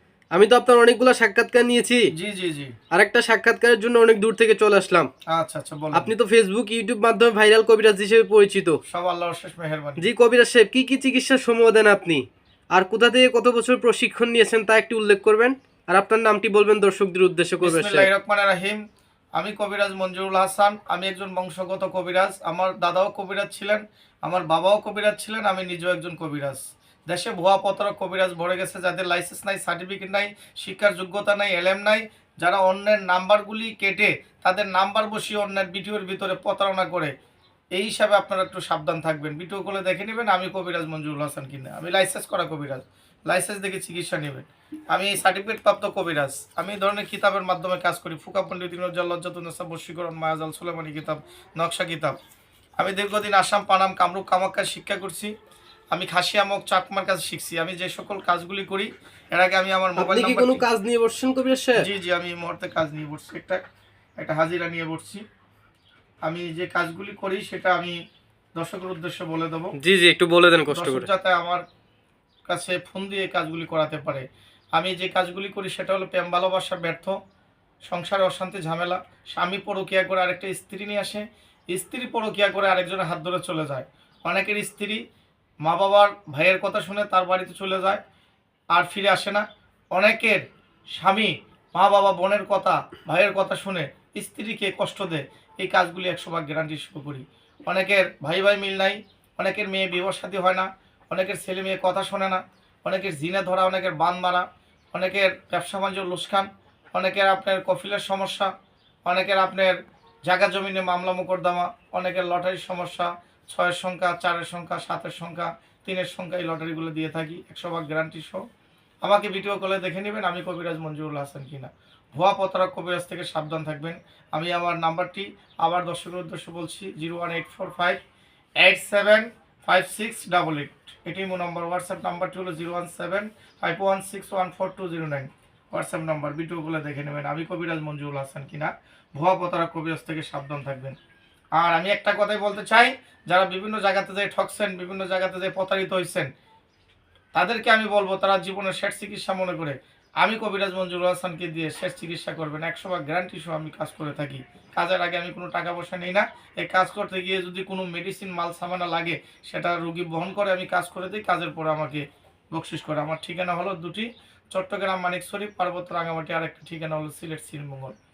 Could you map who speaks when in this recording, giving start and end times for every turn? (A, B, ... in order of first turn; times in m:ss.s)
0:00.3-0:02.0 A
0:02.1-0:02.7 B
0:02.9-0:05.1 A
0:05.3-0:06.1 B
0:05.9-0:08.8 A
0:08.9-0:10.0 B
0:10.0-0:12.2 A
0:12.7-0:18.1 A
0:17.6-0:18.8 B
0:19.4-0:37.1 B
0:37.7-0:52.2 B
0:52.8-0:55.3 B
0:55.9-1:00.6 B
1:00.0-1:01.8 A
1:01.8-1:03.6 B
1:04.2-1:05.2 B
1:06.2-1:08.0 B
1:08.6-1:09.7 B
1:09.8-1:11.1 A
1:10.7-1:11.6 B
1:12.5-1:14.2 B
1:14.7-1:17.1 B
1:17.9-1:25.0 B
1:25.6-1:28.0 B
1:28.7-1:30.4 B
1:30.9-1:48.5 B
1:49.0-1:58.4 B
1:59.0-2:08.0 B
2:08.6-2:20.9 B
2:21.6-2:26.3 B
2:27.3-2:47.9 B